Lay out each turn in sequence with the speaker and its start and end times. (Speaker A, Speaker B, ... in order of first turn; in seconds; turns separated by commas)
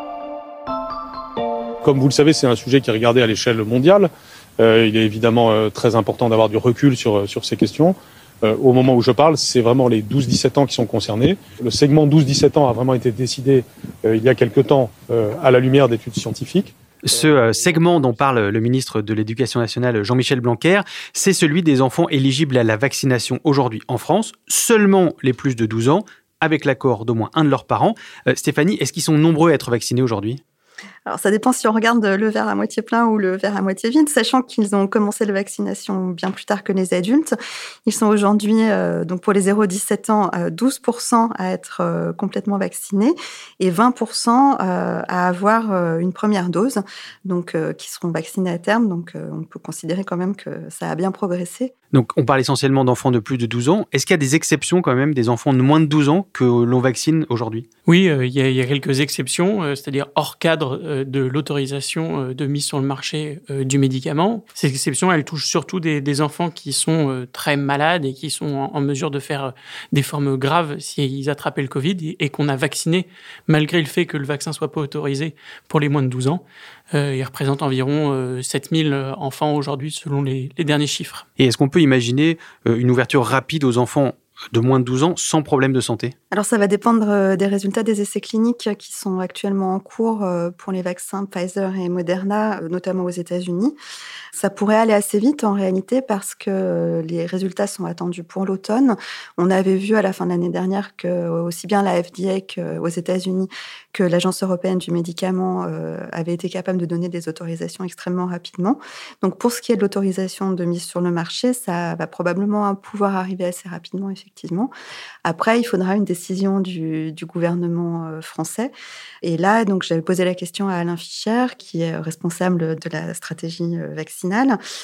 Speaker A: 1.8-18.1, Speaker B: 17.0-30.4, Speaker C: 31.1-37.3, Speaker C: 37.9-51.7, Speaker B: 51.9-57.6, Speaker D: 57.9-81.2, Speaker B: 81.4-86.1, Speaker C: 86.3-93.7, Speaker C: 94.3-114.7, Speaker C: 115.2-118.7, Speaker C: 119.2-124.6